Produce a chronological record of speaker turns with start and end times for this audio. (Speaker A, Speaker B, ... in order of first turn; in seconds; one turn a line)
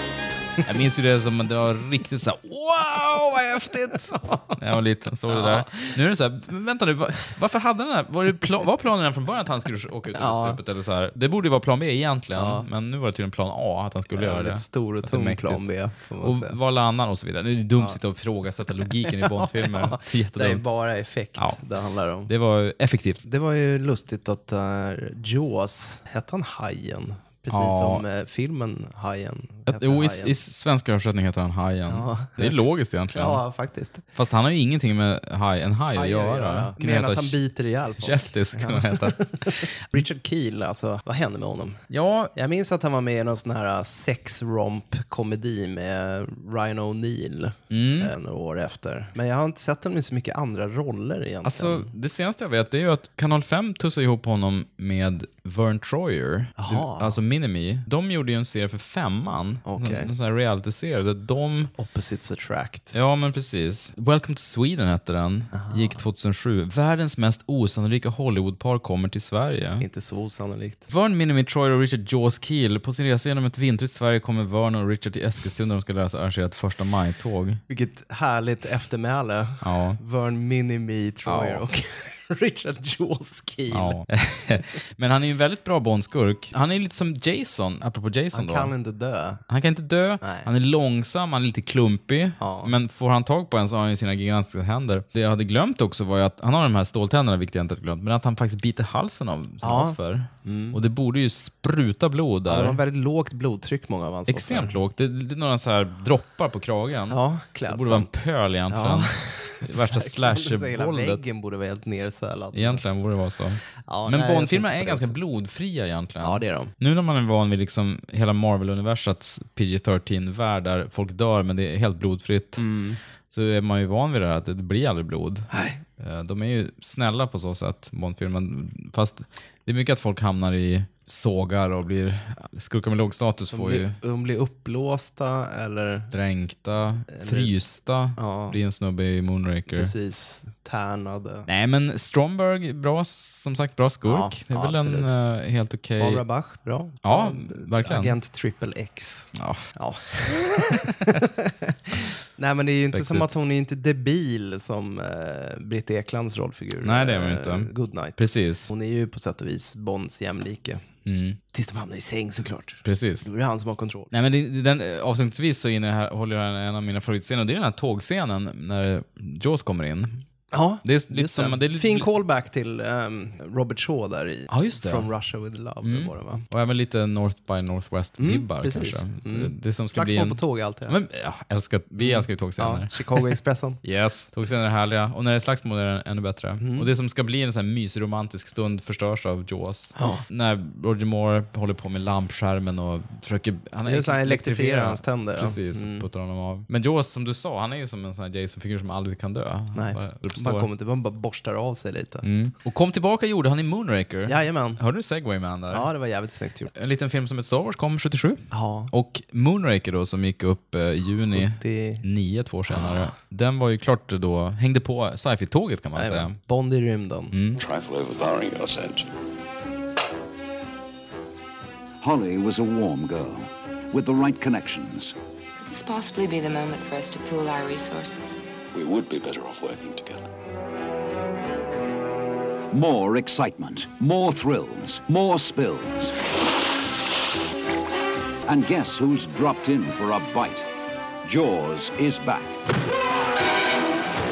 Speaker A: 0.6-15.7
Speaker B: 3.9-4.6
Speaker B: 5.3-5.9
Speaker B: 10.1-10.6
Speaker B: 12.3-12.7
Speaker B: 14.1-16.6
Speaker A: 16.2-20.6
Speaker B: 19.0-22.3
Speaker A: 22.3-23.2
Speaker B: 23.2-30.3
Speaker A: 27.5-28.0
Speaker A: 29.7-33.4
Speaker B: 31.9-32.6
Speaker B: 33.1-34.0
Speaker A: 34.1-37.4
Speaker B: 35.9-41.8
Speaker A: 38.0-39.6
Speaker A: 41.9-42.3
Speaker B: 42.3-51.9
Speaker A: 47.7-48.1
Speaker A: 51.4-61.7
Speaker B: 56.6-57.2
Speaker B: 59.6-60.1
Speaker B: 61.8-62.9
Speaker A: 62.9-69.8
Speaker B: 65.5-66.0
Speaker B: 69.8-70.9
Speaker A: 70.9-77.6
Speaker B: 77.7-84.0
Speaker A: 79.6-80.0
Speaker A: 81.2-81.6
Speaker A: 83.7-88.7
Speaker B: 88.3-89.4
Speaker A: 89.5-102.8
Speaker B: 90.2-90.5
Speaker B: 92.4-92.7
Speaker B: 99.6-100.8
Speaker B: 102.5-104.8
Speaker A: 104.3-111.2
Speaker B: 107.1-112.8
Speaker A: 112.5-122.6
Speaker B: 113.9-115.1
Speaker B: 116.2-116.7
Speaker B: 122.6-123.0
Speaker A: 123.3-133.9
Speaker B: 125.5-125.8
Speaker B: 133.5-136.1
Speaker A: 136.1-139.9
Speaker B: 137.1-137.5
Speaker B: 138.2-138.6
Speaker B: 139.7-141.5
Speaker A: 141.5-146.2
Speaker B: 144.0-145.2
Speaker B: 146.0-160.8
Speaker A: 147.0-148.2
Speaker A: 149.3-149.7
Speaker A: 150.8-151.1
Speaker A: 152.9-153.3
Speaker A: 156.8-158.7
Speaker A: 161.1-161.4
Speaker B: 161.5-164.1
Speaker A: 162.8-163.3
Speaker A: 164.1-170.2
Speaker B: 170.5-176.4
Speaker A: 170.8-172.1
Speaker A: 174.5-175.1
Speaker A: 175.8-200.7
Speaker B: 178.2-181.0
Speaker B: 182.0-183.8
Speaker B: 186.6-186.9
Speaker B: 189.9-190.2
Speaker B: 193.8-196.0
Speaker B: 199.7-202.2
Speaker A: 202.2-205.9
Speaker B: 204.3-204.8
Speaker B: 205.7-206.7
Speaker A: 206.7-216.3
Speaker B: 208.5-208.9
Speaker B: 211.3-212.0
Speaker B: 212.7-213.1
Speaker B: 215.9-217.3
Speaker A: 217.3-217.6
Speaker C: 217.6-219.1
Speaker D: 222.0-225.1
Speaker E: 225.6-228.4
Speaker C: 228.7-230.2
Speaker D: 232.7-236.1
Speaker D: 238.4-240.7
Speaker D: 241.2-242.6